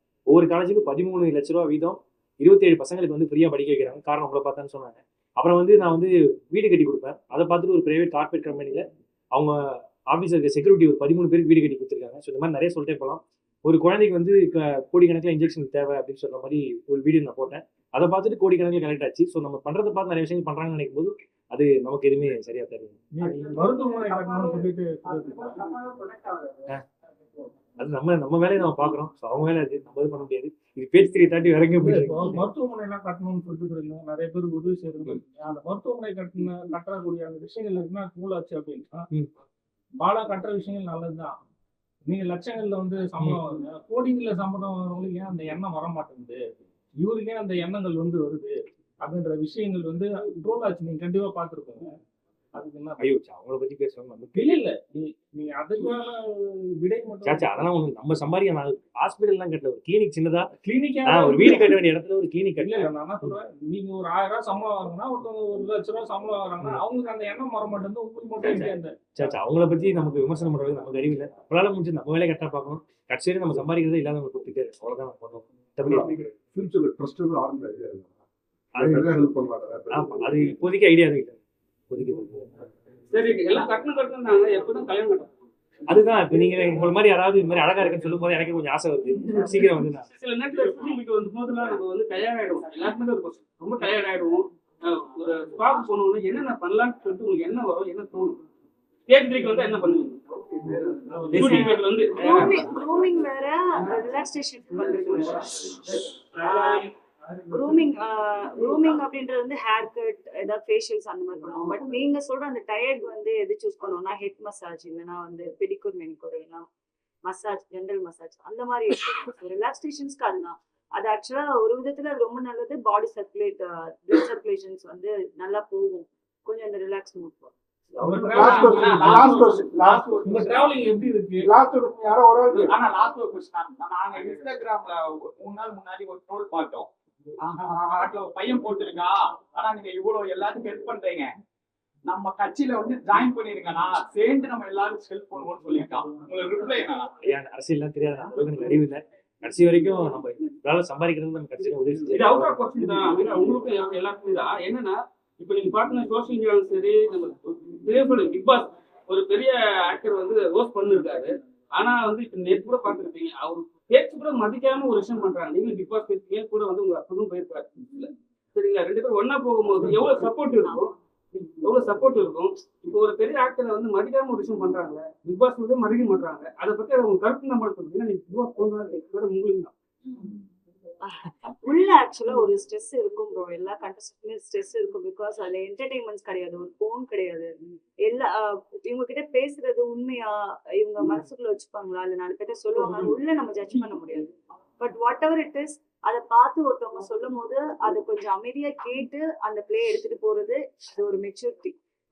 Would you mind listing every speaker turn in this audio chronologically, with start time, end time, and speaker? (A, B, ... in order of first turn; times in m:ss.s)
0:00.3-0:23.3 A
0:23.1-0:25.5 B
0:23.5-0:24.6 C
0:25.2-0:26.5 C
0:27.8-0:32.4 A
0:31.8-0:39.1 B
0:40.0-0:41.4 B
0:42.1-0:46.5 B
0:47.0-0:51.9 B
0:52.5-0:53.0 B
0:53.0-0:54.5 A
0:54.3-0:57.5 B
0:57.2-1:00.5 A
1:00.6-1:01.7 B
1:01.0-1:03.4 A
1:02.6-1:09.0 B
1:08.4-1:16.3 A
1:15.8-1:18.1 D
1:18.8-1:19.1 A
1:18.8-1:20.5 D
1:19.9-1:22.5 A
1:23.1-1:25.5 E
1:25.9-1:30.0 A
1:30.1-1:38.4 E
1:39.1-1:42.6 E
1:41.2-1:41.6 B
1:41.3-1:41.8 A
1:42.2-1:45.7 F
1:46.4-1:46.9 F
1:47.5-1:56.6 F
1:57.2-2:07.5 F
2:08.0-2:09.4 B
2:08.0-2:09.0 A
2:08.3-2:10.0 F
2:08.3-2:10.7 C
2:10.2-2:11.5 B
2:11.4-2:12.7 F
2:12.5-2:16.9 C
2:17.4-2:21.3 C
2:22.0-2:27.1 C
2:27.2-2:32.6 A
2:32.1-2:59.7 E
3:01.0-3:07.5 F
3:08.0-3:21.8 F
3:12.8-3:13.2 C